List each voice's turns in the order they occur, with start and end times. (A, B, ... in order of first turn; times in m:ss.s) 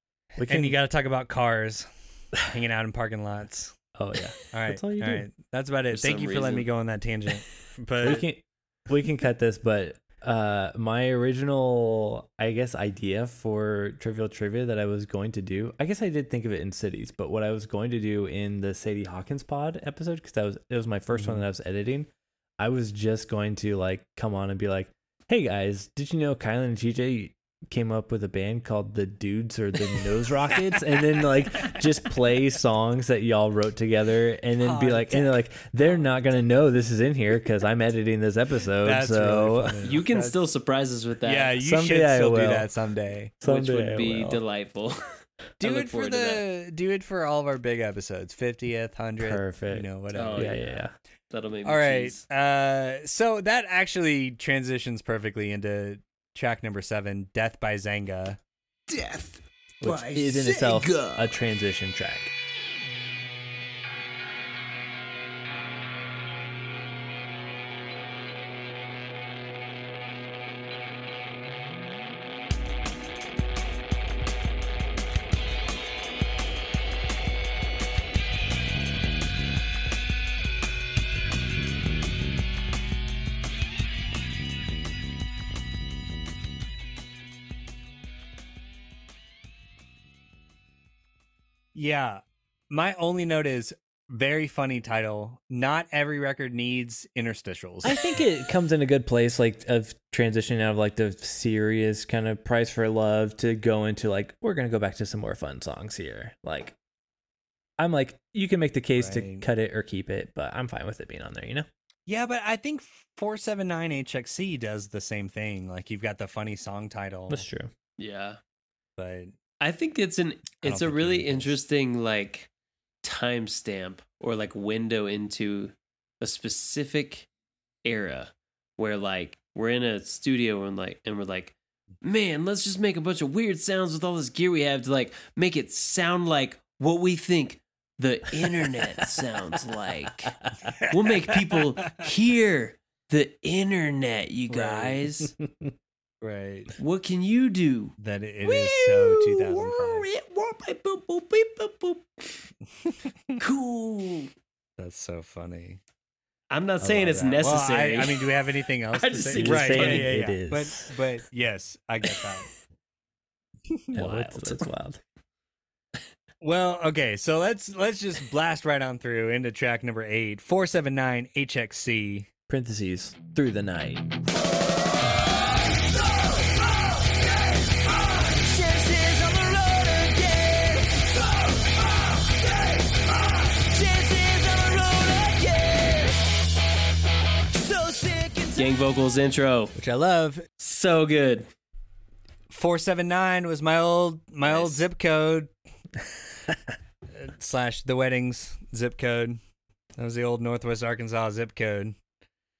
0:00.4-0:03.8 A
0:00.4-0:00.8 B
0:04.0-0:05.3 B
0:04.5-0:08.2 A
0:05.9-0:06.7 C
0:08.0-0:39.8 B
0:21.1-0:21.4 A
0:34.6-0:35.4 A
0:38.8-0:40.4 A
0:39.8-0:41.5 C
0:41.2-0:43.3 A
0:41.6-0:42.7 B
0:43.4-0:44.4 B
0:43.4-0:46.4 C
0:45.6-0:50.8 A
0:49.2-0:50.9 B
0:50.1-0:52.2 C
0:51.6-0:58.4 A
0:58.9-1:01.3 D
0:59.8-1:02.3 B
1:31.7-1:37.9 A
1:37.8-1:46.8 B
1:47.8-1:51.7 B
1:48.9-1:49.5 A
1:52.1-1:57.4 A
1:57.3-1:57.7 B
1:58.0-1:58.4 C
1:59.0-1:59.3 A
1:59.6-2:02.5 C
2:00.6-2:01.5 A
2:03.0-2:07.3 C
2:07.8-2:20.3 C
2:20.4-2:20.8 B
2:20.9-2:25.3 C
2:24.5-2:25.0 A
2:25.4-2:25.7 B
2:26.2-2:26.7 A
2:26.8-2:32.4 C
2:28.0-2:30.0 A
2:33.4-2:34.3 C
2:34.8-2:35.8 A
2:36.5-2:38.4 C
2:36.8-2:37.3 B
2:37.1-2:42.5 A
2:38.9-2:40.2 C
2:39.3-2:40.9 B
2:43.7-2:44.7 A
2:43.9-2:45.0 B
2:46.4-2:52.3 A
2:52.5-2:54.1 B
2:56.0-3:03.0 D
3:03.6-3:06.3 D
3:07.5-3:08.7 D
3:08.6-3:09.7 C
3:09.7-3:10.4 A
3:10.6-3:11.5 C
3:12.5-3:15.5 A
3:14.4-3:14.9 C
3:17.1-3:19.4 A
3:20.0-3:22.0 A